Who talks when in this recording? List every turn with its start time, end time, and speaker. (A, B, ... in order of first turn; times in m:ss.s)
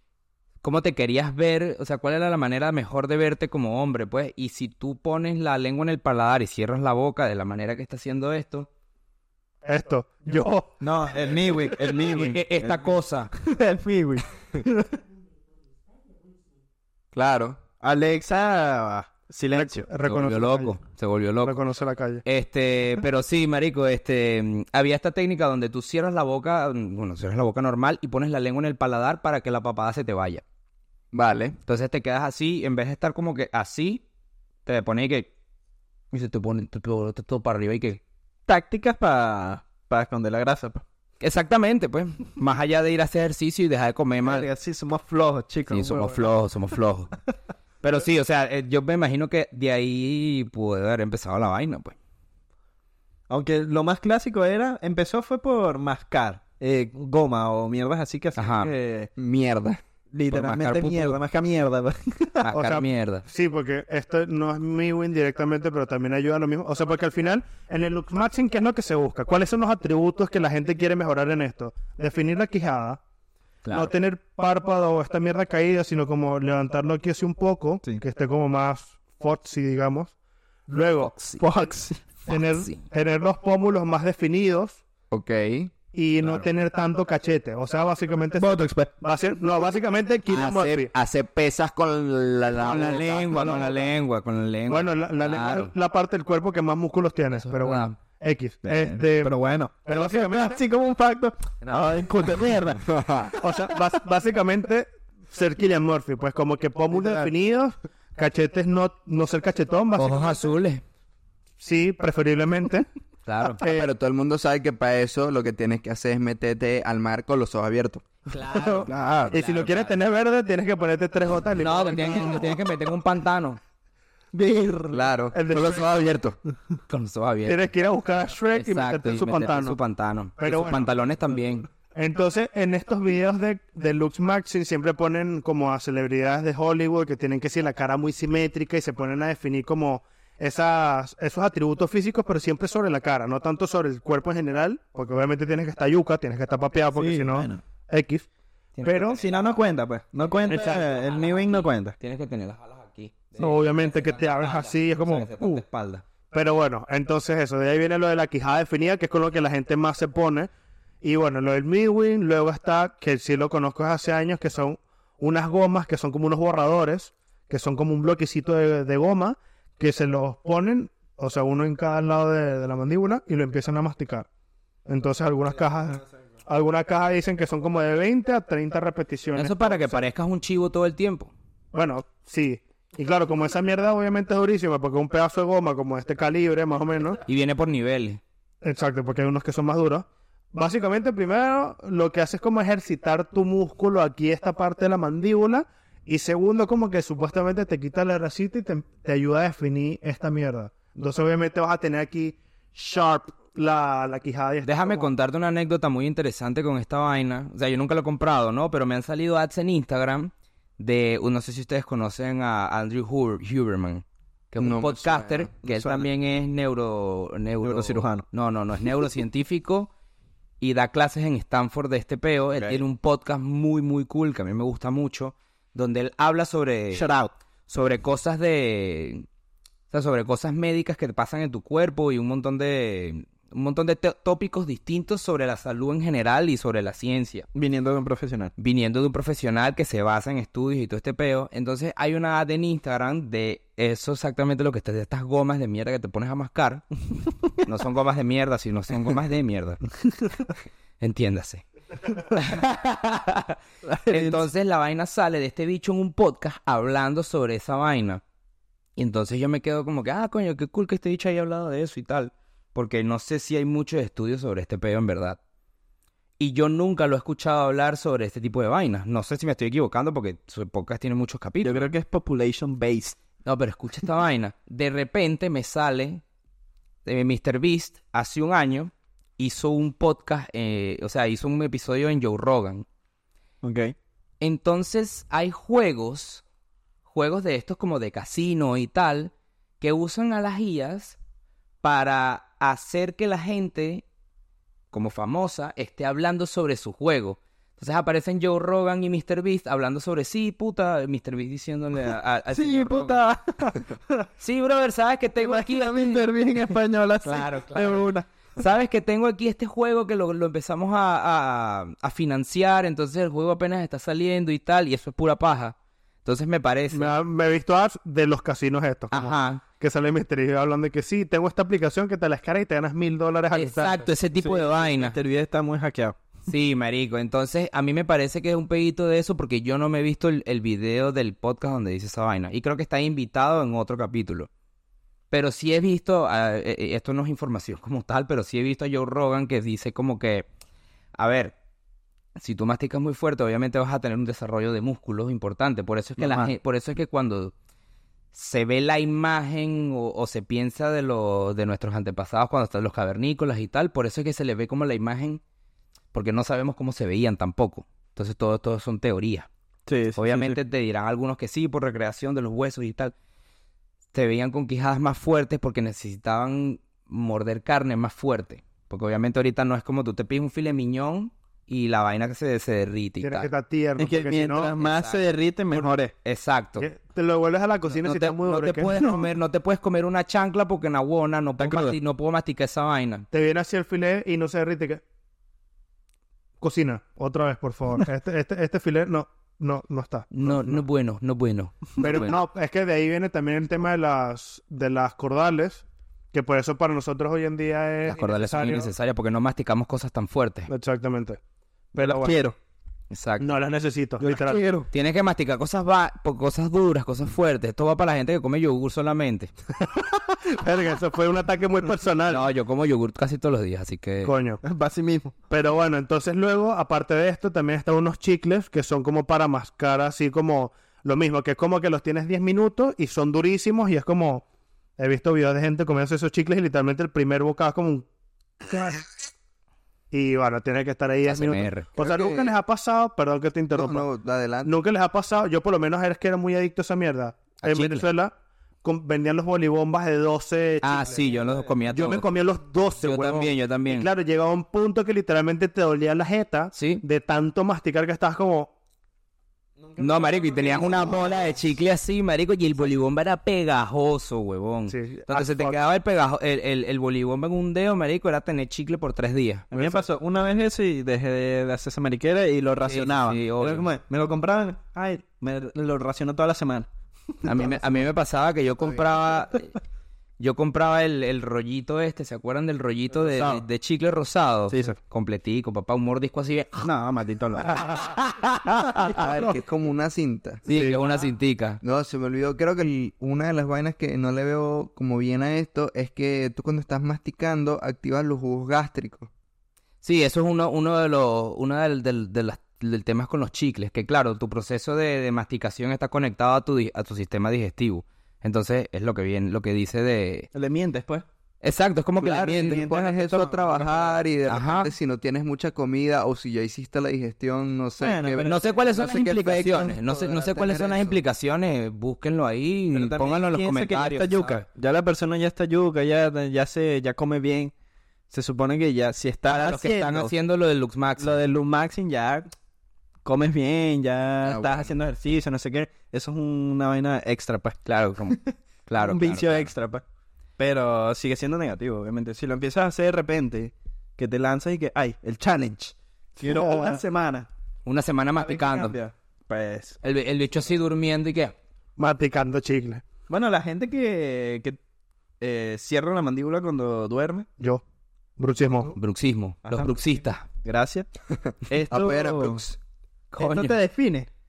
0:00.6-0:08.7 A
0:09.6-0:10.8 B
0:10.8-0:15.0 C
0:12.0-0:13.3 A
0:17.1-0:17.6 D
0:17.8-0:19.9 C
0:19.5-0:20.8 B
0:20.1-0:21.6 A
0:21.4-0:22.2 B
0:22.2-0:30.4 A
0:31.1-0:31.6 D
0:31.7-0:34.0 A
0:34.6-0:35.3 A
0:36.1-0:38.0 A
0:38.5-0:40.8 C
0:41.2-0:44.5 A
0:44.2-0:46.3 C
0:45.7-0:47.2 A
0:47.8-0:52.0 A
0:53.3-0:59.1 C
0:58.4-0:58.7 A
0:59.2-0:59.8 D
1:00.1-1:02.5 C
1:00.3-1:01.2 A
1:02.4-1:03.2 A
1:02.6-1:13.0 B
1:13.6-1:13.9 A
1:13.7-1:20.1 B
1:20.7-1:21.1 B
1:21.0-1:21.4 A
1:21.4-1:22.0 C
1:22.2-1:24.8 B
1:22.3-1:22.8 A
1:25.1-1:25.7 D
1:25.9-1:30.9 B
1:28.4-1:28.9 C
1:30.3-1:33.1 D
1:32.6-1:35.7 A
1:32.7-1:33.8 C
1:34.7-1:39.3 B
1:37.3-1:37.9 A
1:38.6-1:42.8 C
1:39.8-1:40.6 B
1:42.8-1:43.4 D
1:43.4-1:50.4 B
1:50.0-1:50.8 A
1:51.6-1:52.9 B
1:53.3-1:53.6 A
1:53.6-1:53.9 B
1:53.6-1:58.0 D
1:58.3-2:00.0 A
1:58.6-2:02.5 B
1:58.9-1:59.3 D
2:01.6-2:03.6 A
2:04.3-2:05.0 C
2:04.9-2:06.4 D
2:05.3-2:05.8 B
2:06.9-2:07.7 A
2:07.5-2:09.8 B
2:08.6-2:11.7 A
2:10.4-2:10.9 B
2:11.9-2:28.3 B
2:27.0-2:27.6 C
2:28.8-2:29.2 A
2:28.8-2:29.2 B
2:29.1-2:32.0 C
2:30.5-2:30.9 B
2:30.5-2:36.0 A
2:33.4-2:35.6 B
2:36.3-2:40.5 B
2:41.0-2:54.3 B
2:54.9-3:00.0 B
2:59.4-3:01.3 A
3:01.7-3:07.2 B
3:07.3-3:08.2 A
3:08.6-3:25.1 B
3:24.6-3:39.9 A
3:34.6-3:35.5 D
3:35.7-3:36.1 C
3:37.6-3:38.2 C
3:40.6-3:47.1 A
3:46.9-3:47.3 C
3:47.7-3:49.3 A
3:49.9-3:57.5 A
3:57.5-3:58.5 C
3:58.6-4:06.9 A
4:07.6-4:09.8 A
4:11.0-4:18.2 A
4:13.8-4:14.4 C
4:19.0-4:25.4 A
4:26.4-4:31.8 A
4:31.6-4:33.2 C
4:33.4-4:36.2 A
4:37.0-4:42.8 A
4:43.6-4:44.0 C
4:44.4-4:46.4 A
4:47.1-4:51.2 A
4:51.8-4:54.0 A
4:54.9-5:03.2 A
5:02.5-5:04.3 C
5:04.4-5:06.2 A
5:05.4-5:08.3 C
5:07.2-5:17.1 A
5:16.9-5:24.0 B
5:19.1-5:19.6 A
5:23.5-5:25.2 A
5:24.4-5:26.2 C
5:26.5-5:34.5 A
5:35.3-5:40.5 A
5:41.2-5:41.6 A
5:42.4-5:47.5 A
5:46.2-5:46.5 C
5:48.3-5:55.4 A
5:56.1-5:59.5 A
5:59.9-6:00.6 C
6:00.2-6:03.1 A
6:04.1-6:13.5 A
6:13.2-6:14.7 B
6:14.0-6:16.1 C
6:14.8-6:15.2 A
6:16.2-6:16.9 A
6:16.8-6:19.0 B
6:17.9-6:23.3 A
6:18.9-6:19.2 C
6:21.6-6:22.0 C
6:23.3-6:25.0 B
6:26.6-6:30.8 B
6:30.3-6:32.4 A
6:32.0-6:38.9 B
6:38.1-6:40.7 A
6:40.7-6:41.4 B
6:41.9-6:42.4 B
6:42.0-6:42.6 C
6:43.1-6:43.5 A
6:43.4-6:44.6 B
6:44.2-6:44.9 C
6:44.9-6:49.5 A
6:49.8-6:52.4 B
6:52.3-6:54.3 A
6:54.2-6:54.6 B
6:54.6-6:55.3 C
6:55.5-7:04.4 B
7:05.0-7:08.1 B
7:08.6-7:09.1 B
7:10.1-7:14.0 B
7:11.3-7:11.9 A
7:12.0-7:12.5 D
7:13.8-7:14.7 D
7:14.6-7:21.3 B
7:17.6-7:18.1 A
7:20.8-7:22.3 A
7:21.9-7:28.7 B
7:23.0-7:24.1 A
7:26.8-7:27.0 A
7:29.8-7:31.5 C
7:30.0-7:39.7 A
7:34.9-7:35.8 B
7:39.7-7:48.0 C
7:42.8-7:43.9 A
7:47.4-7:49.7 A
7:50.4-7:56.9 A
7:53.3-7:53.6 C
7:54.7-7:55.0 C
7:56.8-7:57.9 C
7:58.8-7:59.5 C
7:59.0-8:00.6 D
8:00.7-8:01.8 A
8:00.7-8:01.0 B
8:01.8-8:09.3 D
8:10.0-8:20.5 A
8:20.5-8:21.2 C
8:21.6-8:22.9 A
8:22.2-8:29.9 D
8:22.3-8:24.2 C
8:24.5-8:24.9 A
8:28.0-8:31.2 C
8:28.4-8:34.6 A
8:32.9-8:37.7 C
8:38.3-8:40.3 C
8:39.5-8:41.3 A
8:41.2-8:42.5 C
8:43.2-8:47.8 C
8:44.4-8:44.9 D
8:47.8-8:49.7 A
8:48.3-8:50.0 C
8:50.6-8:57.5 C
8:56.4-8:57.0 B
8:57.8-8:59.0 A
8:58.4-9:00.0 C
9:00.0-9:01.6 A
9:02.0-9:03.0 B
9:03.3-9:04.8 C
9:05.4-9:07.5 C
9:08.4-9:08.9 B
9:09.0-9:10.4 A
9:09.6-9:10.1 C
9:10.6-9:11.1 C
9:11.3-9:12.8 D
9:11.7-9:12.6 C
9:13.3-9:13.8 A
9:13.4-9:14.3 C